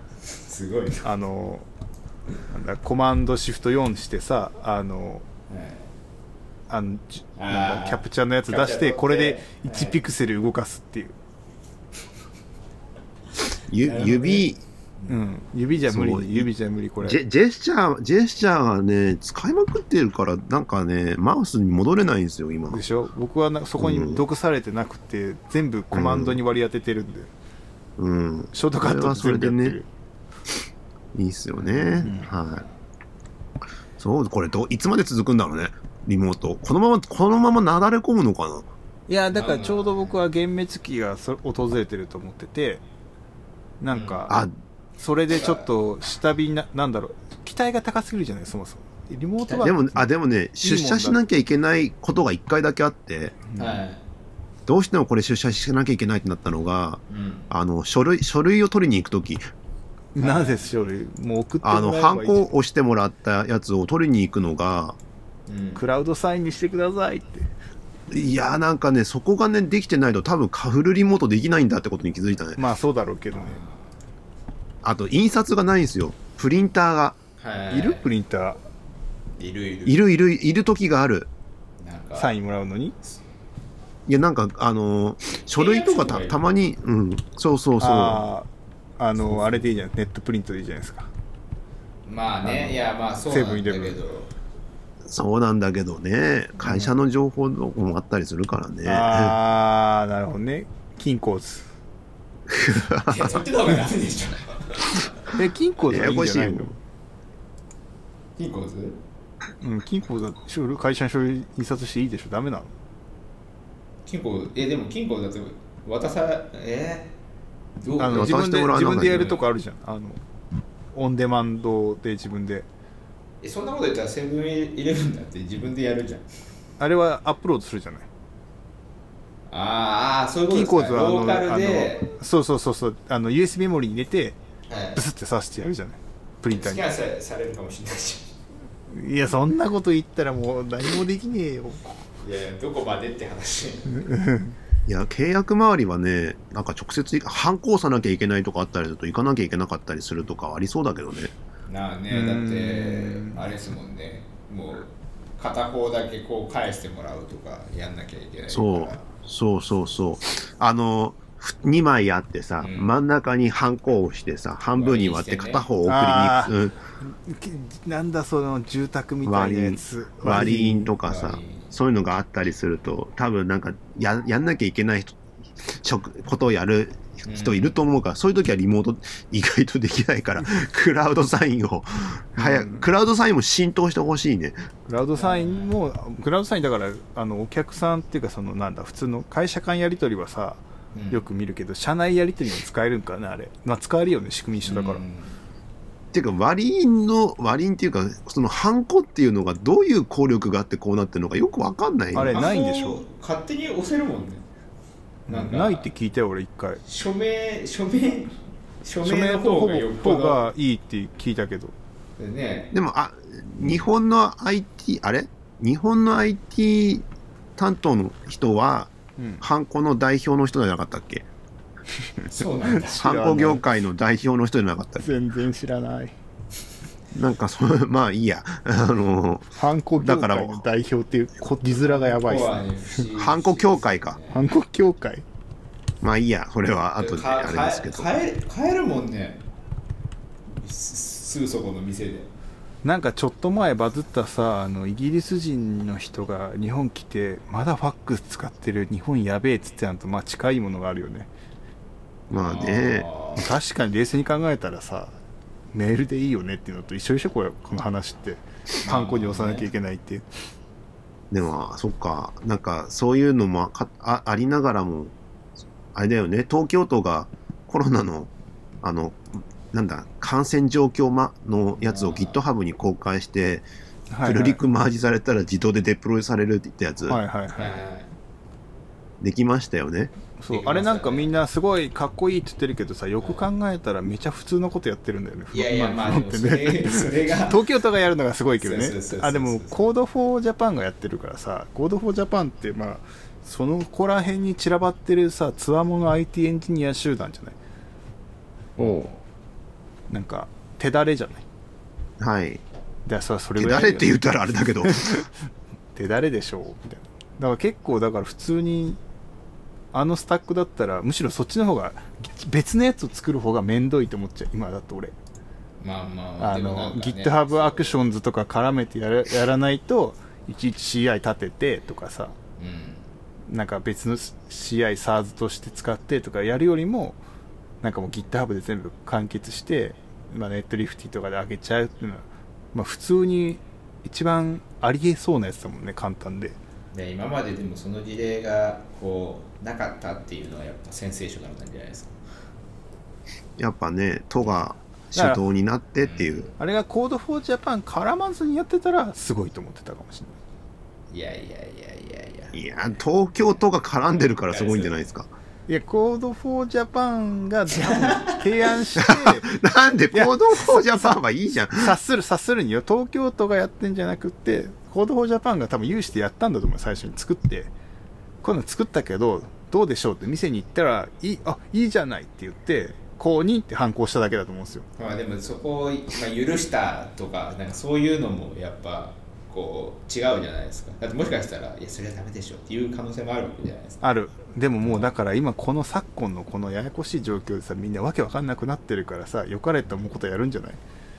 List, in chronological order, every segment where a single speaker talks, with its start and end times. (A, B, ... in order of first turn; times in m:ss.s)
0:00.3-0:01.0 A
0:01.0-0:01.7 B
0:02.5-0:05.2 B
0:05.5-0:05.9 A
0:06.7-0:11.1 B
0:07.4-0:10.0 A
0:13.7-0:14.6 C
0:13.8-0:14.5 A
0:15.1-0:17.2 B
0:15.8-0:16.5 C
0:17.0-0:22.8 C
0:22.7-0:27.3 B
0:23.8-0:24.2 C
0:25.9-0:26.4 C
0:28.0-0:29.8 C
0:28.5-0:29.9 B
0:31.1-0:32.6 C
0:31.5-0:32.8 A
0:32.0-0:32.3 B
0:34.0-0:38.7 C
0:39.1-0:42.8 B
0:39.3-0:40.2 A
0:43.8-0:44.4 B
0:43.9-0:44.3 A
0:45.0-0:50.1 B
0:45.3-0:45.7 A
0:49.4-0:49.7 A
0:49.6-0:53.4 C
0:50.6-0:51.2 B
0:53.6-0:54.0 A
0:54.7-0:59.4 C
0:57.1-0:57.5 A
1:00.1-1:02.5 B
1:00.2-1:00.7 A
1:01.6-1:05.0 C
1:05.5-1:05.8 A
1:05.8-1:07.5 B
1:08.1-1:12.6 C
1:12.6-1:13.6 B
1:13.3-1:13.9 A
1:14.8-1:17.2 C
1:17.4-1:18.0 A
1:17.7-1:18.6 B
1:19.4-1:20.0 A
1:19.8-1:21.3 C
1:21.8-1:22.4 A
1:22.2-1:22.9 B
1:24.1-1:28.2 C
1:25.5-1:26.4 A
1:27.8-1:28.5 B
1:29.0-1:31.1 B
1:29.3-1:29.6 A
1:32.0-1:34.3 A
1:32.4-1:34.0 B
1:35.0-1:39.4 C
1:36.6-1:36.9 B
1:38.8-1:41.7 B
1:42.5-1:43.3 C
1:43.0-1:45.3 A
1:45.3-1:46.7 B
1:45.9-1:46.7 C
1:48.4-1:49.0 A
1:49.6-1:52.7 B
1:54.0-1:57.1 A
1:57.8-1:59.4 A
1:58.0-2:00.2 B
1:58.1-1:59.3 C
2:00.9-2:02.6 B
2:03.4-2:06.2 A
2:06.8-2:08.1 B
2:09.5-2:12.1 A
2:10.5-2:14.4 B
2:14.7-2:15.0 A
2:15.0-2:16.8 B
2:16.5-2:18.3 A
2:18.9-2:22.0 B
2:22.2-2:24.1 A
2:24.0-2:24.6 B
2:24.9-2:31.3 C
2:31.7-2:39.0 A
2:32.1-2:33.4 B
2:38.5-2:46.8 C
2:42.6-2:42.9 A
2:44.7-2:45.6 A
2:45.8-2:50.9 B
2:49.2-3:04.6 C
2:51.0-2:51.7 A
2:57.2-2:57.7 A
3:02.4-3:02.9 B
3:04.9-3:15.0 B
3:05.2-3:05.7 A
3:10.9-3:11.2 A
3:14.6-3:15.4 A
3:16.1-3:22.4 C
3:22.1-3:23.0 B
3:22.2-3:24.4 A
3:25.3-3:26.8 B
3:25.3-3:25.9 A
3:26.8-3:30.4 A
3:29.0-3:31.7 B
3:32.2-3:32.7 A
3:32.7-3:37.0 C
3:37.6-3:41.3 C
3:39.2-3:39.4 B
3:42.2-3:43.6 B
3:42.3-3:43.0 A
3:43.0-3:45.0 C
3:45.0-3:46.1 B
3:47.1-3:50.6 C
3:49.6-3:52.6 B
3:51.8-3:54.4 A
3:53.1-3:54.2 C
3:54.3-3:55.2 B
3:56.0-3:58.2 C
3:57.0-3:59.4 A
4:00.5-4:02.3 A
4:02.8-4:11.3 B
4:12.3-4:13.1 C
4:12.3-4:13.5 A
4:13.4-4:15.1 B
4:15.7-4:20.2 B
4:18.8-4:19.7 A
4:21.3-4:25.1 C
4:25.9-4:28.3 C
4:28.8-4:33.6 C
4:31.8-4:32.4 A
4:34.1-4:34.6 B
4:34.2-4:37.2 C
4:37.1-4:37.8 B
4:37.5-4:38.1 A
4:39.2-4:40.1 C
4:40.4-4:57.6 B
4:40.5-4:41.3 A
4:43.2-4:43.4 A
4:45.5-4:47.6 A
4:48.6-4:49.8 A
4:58.8-4:59.2 A
5:00.1-5:01.4 B
5:02.2-5:02.6 C
5:03.1-5:05.3 B
5:03.6-5:05.2 C
5:05.9-5:09.0 B
5:09.9-5:15.1 B
5:15.8-5:18.0 A
5:16.4-5:22.3 B
5:22.6-5:23.1 A
5:23.5-5:27.2 B
5:27.8-5:36.6 B
5:36.9-5:42.2 A
5:43.6-5:46.5 C
5:45.1-5:45.4 B
5:46.0-5:46.5 A
5:46.6-5:50.4 B
5:51.1-5:52.6 A
5:52.5-5:55.3 C
5:54.1-5:55.0 A
5:55.7-6:01.1 B
5:57.7-5:58.4 A
5:59.0-6:02.0 C
6:01.8-6:07.7 B
6:08.4-6:14.9 B
6:15.0-6:24.0 A
6:24.0-6:30.8 B
6:24.8-6:25.1 A